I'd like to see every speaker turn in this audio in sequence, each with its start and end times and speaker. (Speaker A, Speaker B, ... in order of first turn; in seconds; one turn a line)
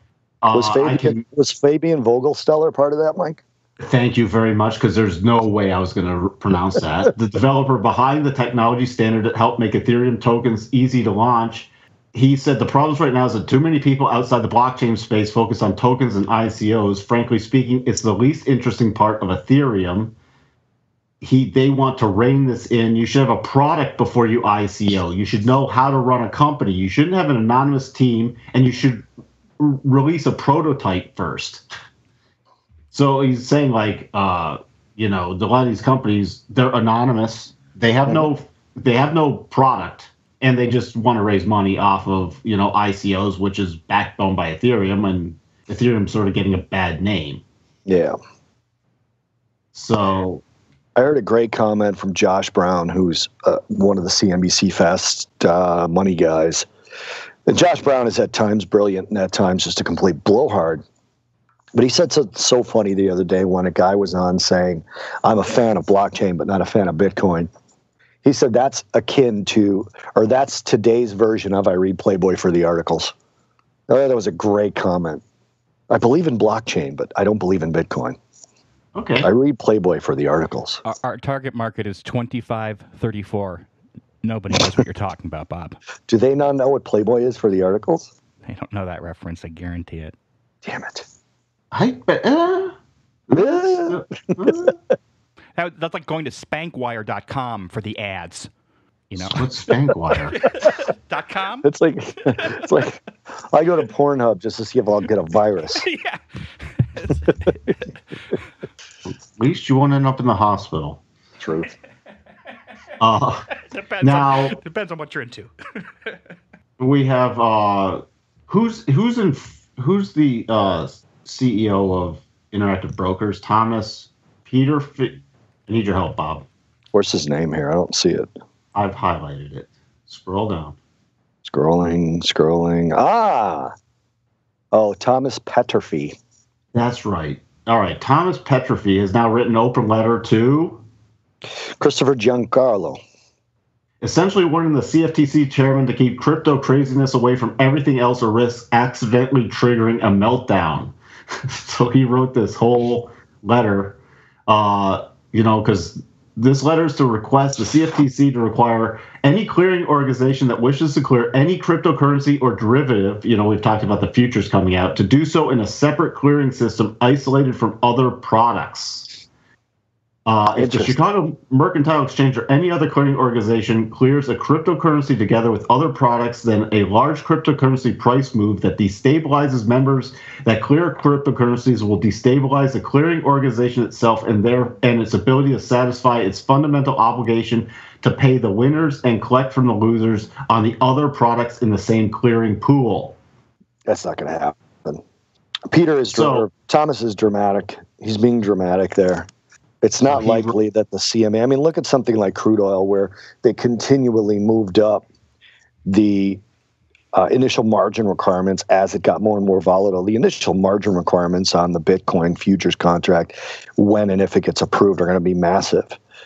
Speaker A: 0.4-1.2
Speaker B: 0.5-3.4
Speaker A: 3.8-20.1
Speaker A: 21.2-29.1
Speaker A: 29.6-31.6
Speaker A: 32.9-47.4
Speaker B: 47.9-48.2
Speaker A: 49.7-50.4
Speaker B: 51.0-56.7
Speaker B: 57.5-60.8
Speaker B: 61.8-67.5
Speaker B: 68.2-73.1
Speaker B: 73.9-75.2
Speaker B: 75.9-78.2
Speaker A: 79.0-79.3
Speaker B: 79.2-80.8
Speaker C: 80.8-83.7
Speaker C: 84.2-85.8
Speaker B: 86.1-88.1
Speaker C: 88.5-90.1
Speaker B: 90.6-91.1
Speaker A: 91.7-92.8
Speaker A: 93.3-94.8
Speaker B: 93.3-94.7
Speaker C: 95.6-98.5
Speaker C: 99.1-99.7
Speaker A: 99.2-100.4
Speaker C: 100.3-101.7
Speaker B: 101.6-103.0
Speaker C: 102.2-102.7
Speaker B: 103.5-105.8
Speaker C: 105.8-106.2
Speaker C: 106.8-107.6
Speaker A: 109.1-111.0
Speaker B: 111.4-111.7
Speaker A: 113.0-113.5
Speaker C: 113.7-115.5
Speaker A: 114.0-114.6
Speaker A: 116.8-126.5
Speaker B: 126.9-128.3
Speaker A: 128.8-130.8
Speaker B: 131.4-133.7
Speaker B: 134.7-136.2
Speaker A: 136.7-140.8
Speaker B: 141.8-143.0
Speaker A: 144.0-150.9
Speaker A: 151.5-169.2
Speaker A: 170.3-193.2
Speaker B: 170.6-171.0
Speaker B: 193.9-195.0
Speaker B: 195.7-199.3
Speaker A: 196.1-196.5
Speaker B: 199.8-205.1
Speaker A: 200.1-200.5
Speaker B: 205.8-206.4
Speaker B: 207.1-216.0